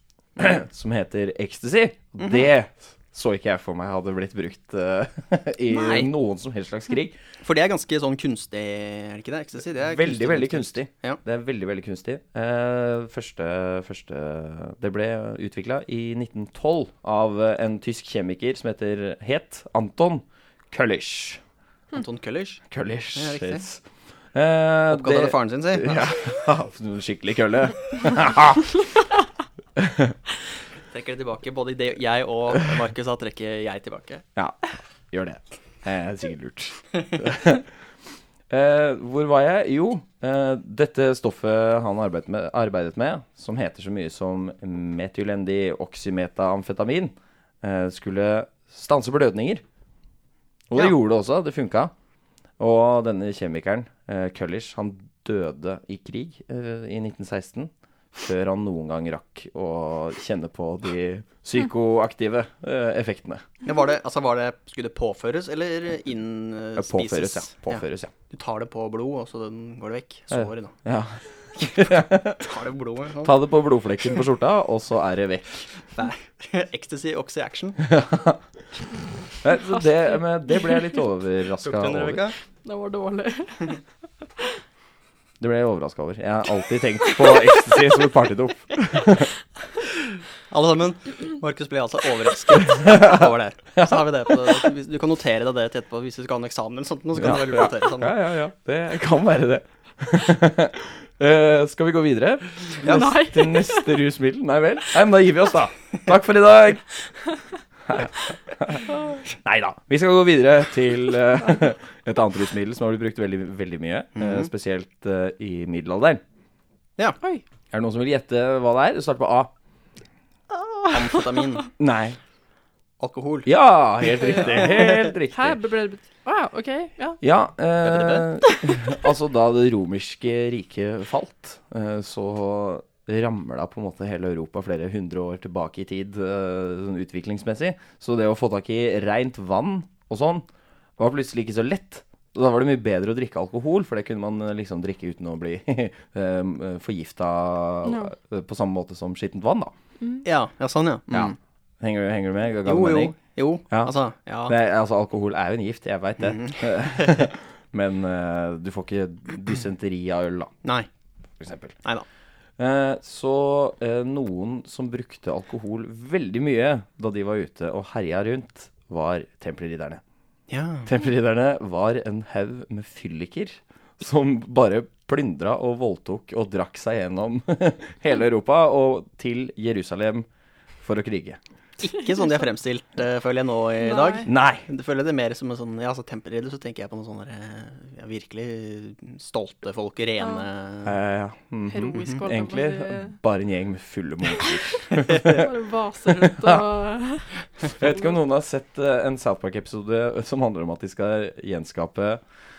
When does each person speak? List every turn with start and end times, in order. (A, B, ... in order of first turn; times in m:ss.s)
0:00.4-0:07.2 A
0:05.7-0:06.1 B
0:07.4-0:11.2 B
0:09.9-0:21.4 A
0:21.9-0:22.6 B
0:22.7-0:28.8 A
0:23.1-0:23.6 B
0:24.9-0:26.1 B
0:29.8-0:30.2 A
0:30.9-0:34.2 B
0:34.4-0:37.6 A
0:38.5-0:49.6 A
0:50.7-0:51.9 A
0:52.6-1:03.5 A
1:03.6-1:10.7 B
1:06.8-1:08.1 A
1:10.3-1:12.5 A
1:12.4-1:13.3 B
1:13.2-1:15.7 A
1:15.9-1:17.8 B
1:17.8-1:18.4 A
1:19.4-1:22.2 A
1:20.5-1:20.9 C
1:21.6-1:22.4 B
1:22.6-1:23.8 C
1:25.4-1:29.3 A
1:27.2-1:27.9 C
1:30.5-1:38.1 B
1:37.2-1:46.9 A
1:42.8-1:43.1 B
1:42.8-1:44.0 C
1:47.9-1:48.8 A
1:49.4-1:56.2 A
1:54.2-1:54.5 B
1:57.7-1:59.5 A
2:00.5-2:01.4 C
2:00.9-2:01.7 B
2:01.8-2:02.2 A
2:03.0-2:03.5 B
2:03.4-2:05.6 A
2:04.1-2:04.8 B
2:05.3-2:07.2 C
2:07.2-2:20.4 A
2:07.8-2:08.3 B
2:21.0-2:29.7 A
2:27.8-2:28.1 C
2:30.0-2:30.2 C
2:30.2-2:31.4 B
2:31.1-2:33.2 A
2:32.6-2:34.5 B
2:34.4-2:40.5 A
2:36.2-2:37.3 B
2:41.4-2:41.8 A
2:42.6-2:50.0 A
2:50.5-2:50.9 B
2:50.8-3:00.2 A
3:00.8-3:01.4 A
3:01.8-3:11.0 B
3:03.8-3:04.3 C
3:04.2-3:04.7 A
3:10.8-3:15.5 A
3:11.7-3:13.2 C
3:14.4-3:17.9 C
3:16.2-3:16.6 A
3:17.6-3:22.2 A